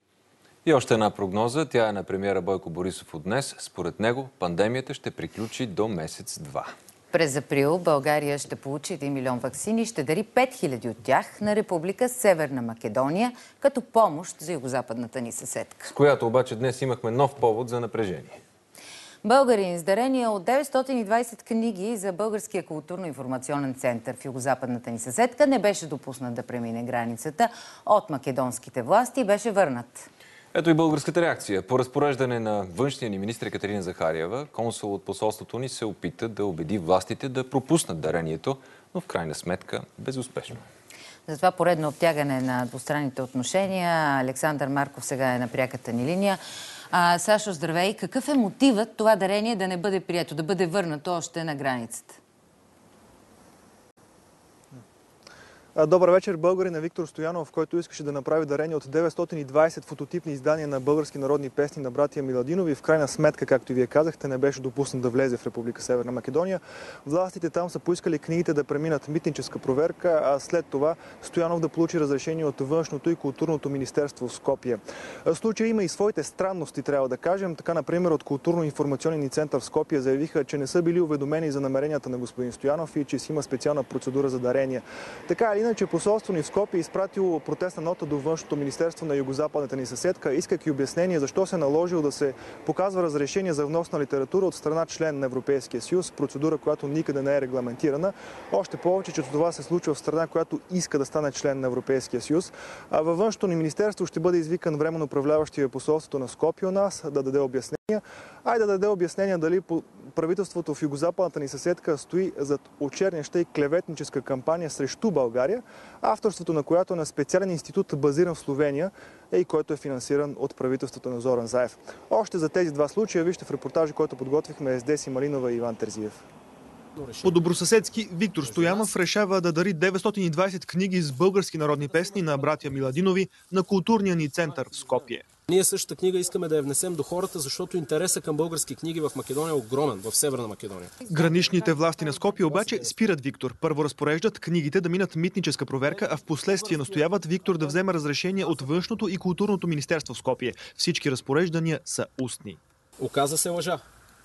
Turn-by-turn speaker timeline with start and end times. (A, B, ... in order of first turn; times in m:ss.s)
0:00.6-0:06.7 A
0:07.1-0:15.9 B
0:15.9-0:18.4 A
0:19.2-0:30.1 B
0:30.5-0:40.6 A
0:41.3-0:46.4 B
0:46.9-0:52.2 B
0:55.7-2:06.2 C
2:07.0-2:07.5 D
2:07.2-2:15.2 C
2:08.4-2:08.9 D
2:15.5-2:21.0 D
2:21.0-2:32.6 C
2:22.4-2:22.9 D
2:33.0-2:33.8 D